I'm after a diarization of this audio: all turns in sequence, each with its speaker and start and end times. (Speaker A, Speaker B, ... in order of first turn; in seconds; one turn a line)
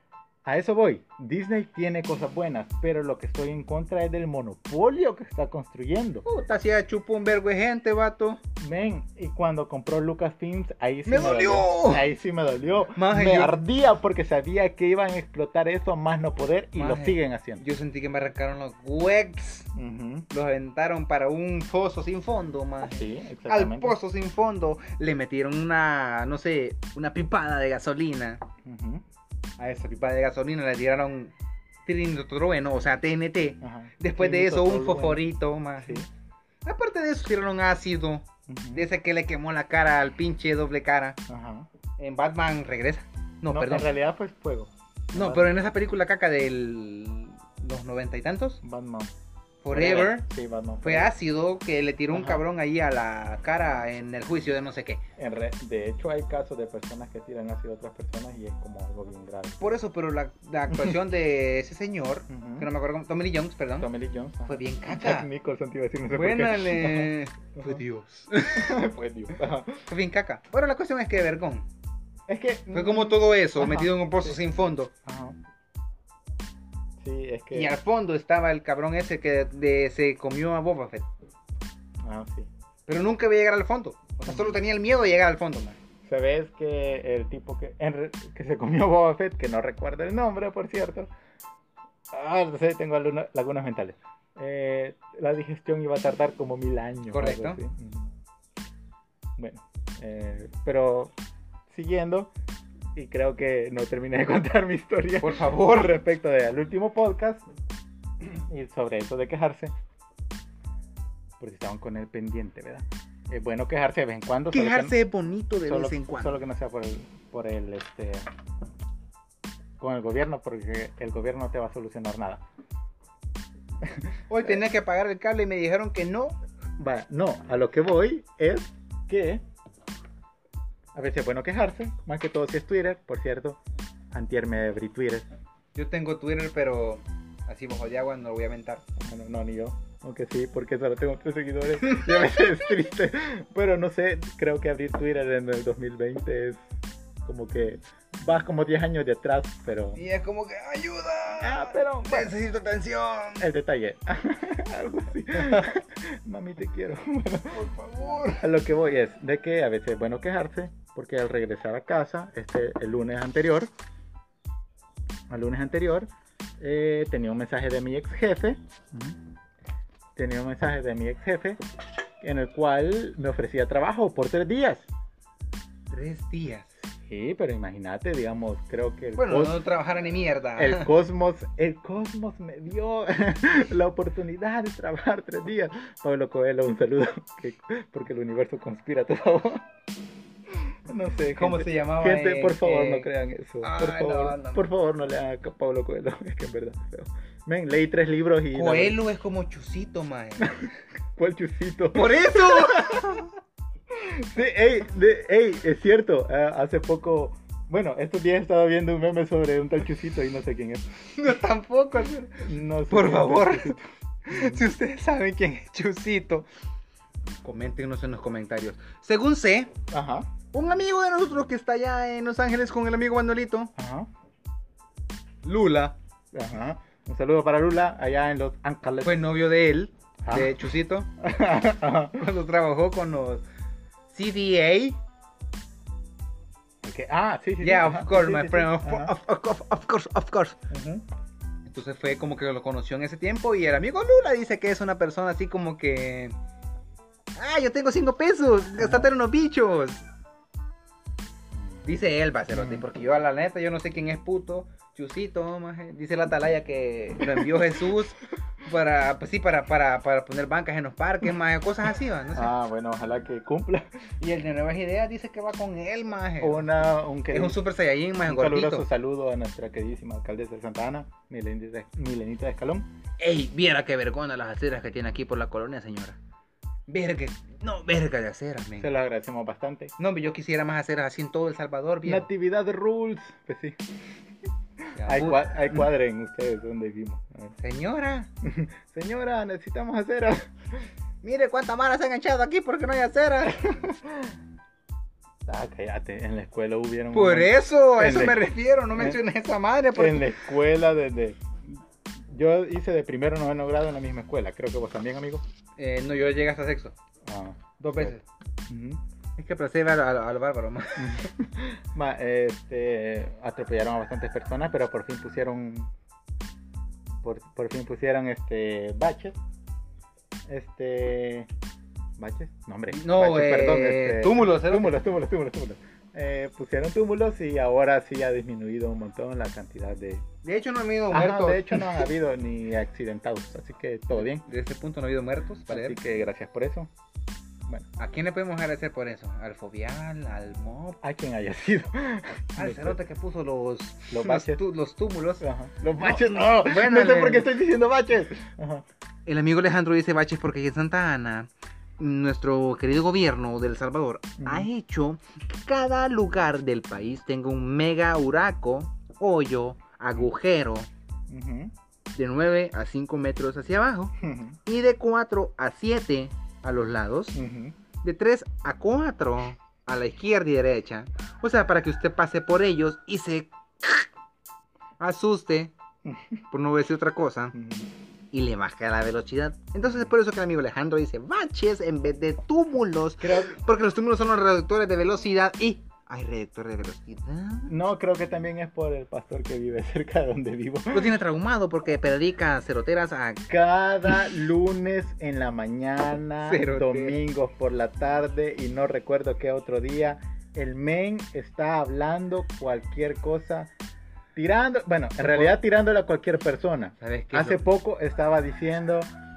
Speaker A: 0.5-6.2
Speaker B: 6.2-8.4
Speaker A: 8.6-17.6
Speaker B: 11.1-12.1
Speaker B: 12.9-13.6
Speaker B: 16.8-19.7
Speaker A: 19.8-20.3
Speaker B: 20.3-28.4
Speaker A: 22.9-24.0
Speaker A: 28.6-29.0
Speaker B: 29.6-31.3
Speaker B: 31.9-36.1
Speaker A: 33.6-35.2
Speaker A: 35.8-36.1
Speaker B: 36.6-41.2
Speaker A: 38.5-38.9
Speaker A: 41.3-41.7
Speaker B: 42.0-43.9
Speaker A: 43.5-45.5
Speaker B: 45.1-48.6
Speaker A: 48.6-49.1
Speaker B: 49.6-50.3
Speaker A: 49.7-51.1
Speaker B: 50.8-55.0
Speaker A: 52.1-52.4
Speaker A: 55.2-59.7
Speaker B: 59.6-63.9
Speaker A: 60.7-61.0
Speaker A: 62.3-62.7
Speaker A: 63.8-67.8
Speaker B: 64.5-65.3
Speaker B: 66.1-68.8
Speaker A: 68.5-69.8
Speaker B: 69.9-71.7
Speaker A: 72.3-74.4
Speaker B: 72.7-74.9
Speaker A: 75.0-75.4
Speaker A: 77.0-77.7
Speaker B: 77.5-81.1
Speaker A: 82.0-82.5
Speaker B: 82.9-85.8
Speaker A: 84.3-84.5
Speaker A: 86.0-91.1
Speaker A: 92.1-98.1
Speaker B: 97.1-97.6
Speaker A: 99.4-101.1
Speaker A: 101.7-102.3
Speaker A: 103.0-107.5
Speaker B: 105.2-105.9
Speaker A: 108.2-109.7
Speaker A: 111.4-115.0
Speaker B: 114.5-116.4
Speaker A: 115.6-118.3
Speaker A: 119.8-122.4
Speaker A: 123.8-124.6
Speaker B: 124.3-126.3
Speaker A: 126.8-129.4
Speaker A: 130.9-133.6
Speaker A: 134.1-135.3
Speaker B: 135.8-138.8
Speaker A: 139.0-146.6
Speaker B: 141.9-142.2
Speaker A: 147.2-150.0
Speaker B: 150.0-153.5
Speaker A: 151.4-152.3
Speaker A: 153.4-157.7
Speaker B: 157.5-158.4
Speaker A: 158.4-163.7
Speaker A: 165.3-166.1
Speaker A: 166.6-169.2
Speaker A: 170.2-171.6
Speaker A: 172.2-174.9
Speaker B: 175.9-176.8
Speaker A: 177.0-179.6
Speaker B: 179.2-180.9
Speaker A: 180.6-189.7
Speaker A: 190.6-199.0
Speaker B: 191.3-193.1
Speaker B: 193.6-194.6
Speaker B: 198.5-200.6
Speaker A: 200.4-203.2
Speaker B: 201.9-203.3
Speaker A: 203.9-210.9
Speaker B: 211.2-213.8
Speaker A: 212.4-214.7
Speaker B: 214.3-216.5
Speaker B: 217.4-219.7
Speaker A: 219.9-220.3
Speaker B: 220.5-223.7
Speaker A: 223.8-224.1
Speaker B: 225.4-225.9
Speaker A: 226.3-229.2
Speaker B: 229.0-231.1
Speaker A: 230.2-232.2
Speaker B: 232.1-233.4
Speaker B: 234.1-235.0
Speaker A: 236.8-239.1
Speaker B: 237.6-240.6
Speaker A: 240.7-241.1
Speaker B: 241.7-246.4
Speaker B: 247.4-250.1
Speaker A: 248.8-249.1
Speaker A: 251.6-251.8
Speaker B: 251.8-262.5
Speaker A: 252.5-252.8
Speaker A: 257.3-257.7
Speaker A: 262.3-264.1
Speaker B: 264.2-266.7
Speaker A: 266.4-267.6
Speaker B: 267.3-268.9
Speaker A: 268.2-272.9
Speaker B: 273.2-276.2
Speaker B: 276.9-278.9
Speaker A: 278.8-279.9
Speaker B: 280.0-282.3
Speaker A: 282.1-283.8
Speaker A: 284.9-287.6
Speaker B: 284.9-285.9
Speaker B: 287.6-288.3
Speaker A: 288.4-290.9
Speaker B: 291.2-293.6
Speaker A: 293.5-294.4
Speaker A: 295.5-299.2
Speaker B: 297.1-300.3
Speaker A: 299.9-305.4
Speaker B: 305.8-306.9
Speaker A: 307.2-308.2
Speaker B: 307.8-308.2
Speaker A: 308.7-309.0
Speaker B: 309.4-311.2
Speaker A: 311.0-315.9
Speaker A: 317.2-319.4
Speaker A: 320.5-321.5
Speaker A: 322.2-330.3
Speaker B: 322.9-324.9
Speaker B: 330.4-332.1
Speaker A: 331.1-334.5
Speaker B: 334.1-336.0
Speaker A: 335.7-336.9
Speaker B: 338.0-341.0
Speaker A: 341.0-343.0
Speaker B: 342.6-345.4
Speaker A: 344.1-344.6
Speaker A: 345.4-348.9
Speaker B: 346.0-347.5
Speaker B: 349.3-360.9
Speaker A: 354.4-354.7
Speaker A: 361.3-361.7
Speaker B: 362.1-364.1
Speaker A: 364.2-364.6
Speaker B: 364.6-367.4
Speaker A: 367.3-367.8
Speaker B: 368.0-374.1
Speaker B: 375.0-375.7
Speaker A: 376.1-376.4
Speaker B: 376.5-377.6
Speaker A: 377.5-377.9
Speaker B: 378.3-387.7
Speaker A: 379.8-380.1
Speaker A: 383.2-383.6
Speaker A: 387.7-391.1
Speaker B: 390.9-393.5
Speaker A: 393.5-403.7
Speaker B: 396.5-397.2
Speaker A: 404.4-409.1
Speaker B: 405.2-405.6
Speaker B: 407.0-407.6